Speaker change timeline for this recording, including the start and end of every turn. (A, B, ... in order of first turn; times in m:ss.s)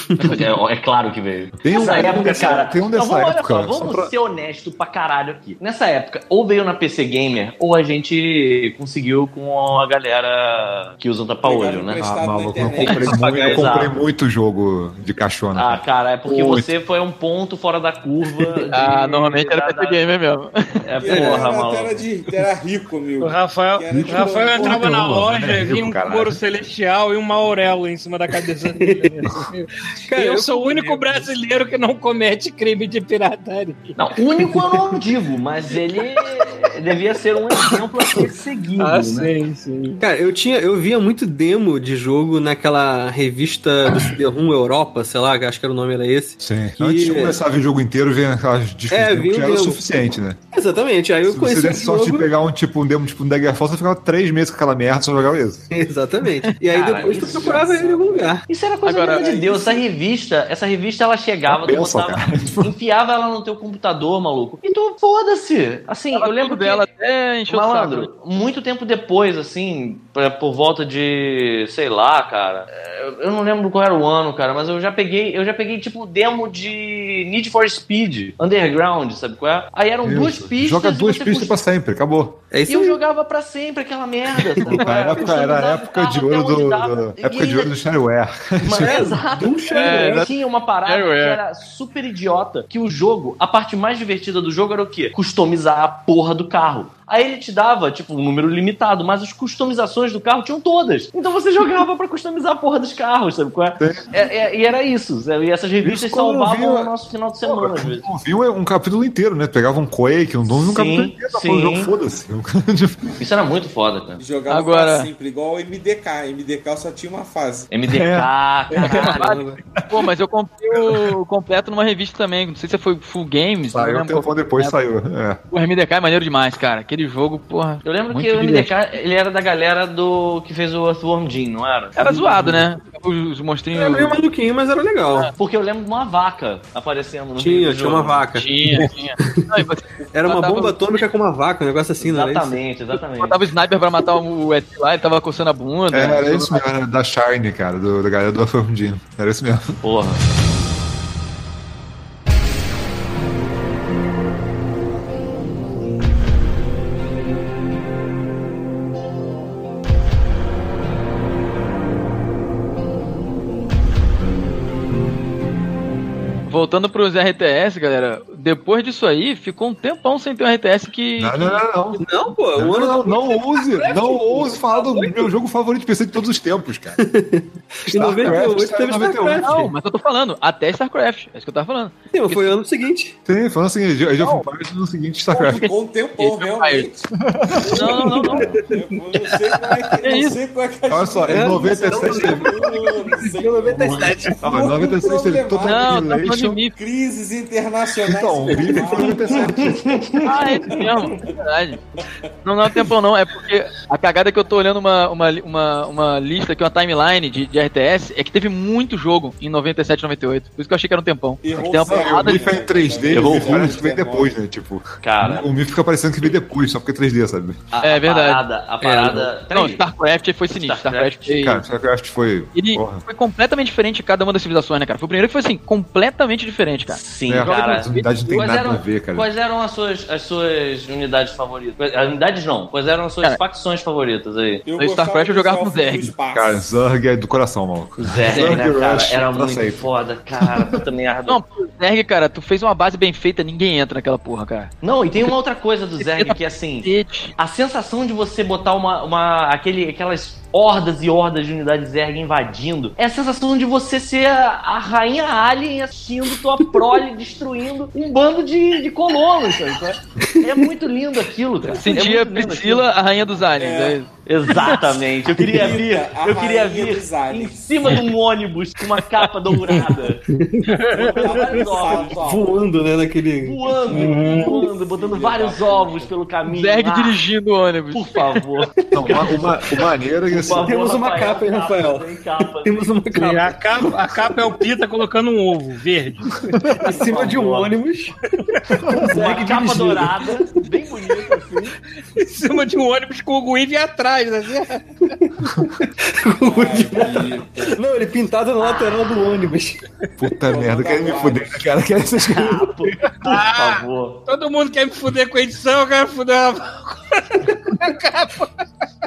0:00.2-0:12.0 A
0:01.6-0:04.1 B
0:01.9-0:02.3 C
0:11.4-0:13.8 D
0:12.0-0:16.7 B
0:12.8-0:13.9 A
0:15.6-0:20.0 A
0:18.7-0:20.8 E
0:20.8-0:22.0 A
0:21.0-0:25.0 D
0:21.0-0:21.5 F
0:23.2-0:34.0 C
0:23.9-0:26.4 B
0:28.8-0:29.2 F
0:30.0-0:31.2 F
0:34.0-0:39.3 A
0:38.8-0:40.0 C
0:40.0-0:47.4 F
0:46.4-0:50.4 B
0:48.9-0:49.8 F
0:50.5-0:52.3 F
0:51.2-0:55.6 B
0:55.7-0:58.4 F
0:56.7-1:06.8 A
0:58.8-0:59.2 E
0:59.0-0:59.8 D
1:01.5-1:02.7 B
1:06.1-1:08.1 E
1:07.5-1:21.6 A
1:20.0-1:22.4 B
1:22.5-1:23.0 F
1:22.6-1:27.7 A
1:24.5-1:24.8 F
1:24.6-1:29.0 B
1:28.6-1:48.1 A
1:28.8-1:30.3 F
1:29.7-1:30.3 E
1:30.8-1:31.4 E
1:43.8-1:44.1 B
1:45.8-1:46.9 B
1:47.4-1:53.2 B
1:50.5-1:51.9 A
1:53.2-1:54.2 A
1:54.2-1:57.7 D
1:54.5-1:55.1 E
1:57.7-1:59.4 A
1:57.9-1:59.1 B
1:58.9-2:04.7 E
1:59.2-1:59.6 F
1:59.7-2:00.1 B
2:00.7-2:01.1 B
2:03.7-2:05.4 B
2:05.5-2:08.7 E
2:07.8-2:12.1 A
2:12.0-2:14.2 E
2:12.0-2:12.7 F
2:13.7-2:15.3 F
2:15.4-2:18.3 A
2:17.4-2:19.5 F
2:18.3-2:21.0 E
2:20.1-2:22.6 F
2:22.0-2:23.4 A
2:23.1-2:26.6 E
2:25.9-2:29.8 B
2:29.8-2:30.2 A
2:46.5-2:51.6 E
2:51.2-2:57.0 B
2:52.0-2:55.3 F
2:57.0-2:59.7 F
2:57.9-2:59.7 B
2:59.4-3:02.5 E
3:02.1-3:03.2 F
3:03.2-3:05.7 B
3:05.3-3:07.1 D
3:05.4-3:06.9 E
3:07.2-3:08.1 B
3:07.7-3:08.5 E
3:07.7-3:21.4 D
3:07.9-3:08.6 F
3:10.0-3:10.4 E
3:10.9-3:12.6 B
3:11.3-3:14.5 F
3:14.4-3:16.6 B
3:15.6-3:16.7 E
3:18.0-3:20.0 B
3:19.6-3:21.2 A
3:20.2-3:21.8 E
3:22.4-3:32.6 E
3:31.4-3:34.3 D
3:31.5-3:37.6 B
3:33.1-3:33.8 A
3:35.0-3:35.5 A
3:37.7-3:39.8 A
3:37.8-3:38.4 E
3:38.8-3:39.4 F
3:39.4-3:41.6 E
3:40.6-3:41.3 A
3:41.4-3:43.0 B
3:42.5-3:48.1 E
3:46.9-3:54.6 A
3:47.3-3:49.3 B
3:54.6-3:56.6 D
3:54.8-3:56.1 E
3:56.3-3:59.8 B
3:58.0-4:01.4 A
3:58.3-3:58.6 E
4:00.4-4:00.8 B
4:01.3-4:04.7 E
4:04.8-4:22.9 A
4:06.0-4:07.3 E
4:21.8-4:24.1 E
4:23.6-4:24.0 D
4:24.2-4:30.2 A
4:25.5-4:27.6 D
4:30.5-4:31.2 C
4:30.9-4:32.2 A
4:30.9-4:32.8 D
4:32.1-4:34.4 F
4:33.4-4:37.2 A
4:33.9-4:34.6 C
4:34.5-4:36.1 D
4:36.5-4:38.4 E
4:37.9-4:39.2 A
4:38.9-4:40.7 B
4:40.3-4:42.9 A
4:40.6-4:42.1 F
4:42.6-4:43.6 F
4:43.1-4:46.6 C
4:46.5-4:46.9 B
4:46.8-4:47.7 A
4:46.8-4:48.2 F
4:48.8-4:49.2 B
4:48.9-4:50.3 F
4:49.1-4:51.8 A
4:52.2-4:55.1 C
4:55.2-4:59.8 F
4:56.4-4:57.8 D
5:00.2-5:03.0 B
5:00.4-5:01.6 D
5:02.2-5:04.2 A
5:03.2-5:08.5 C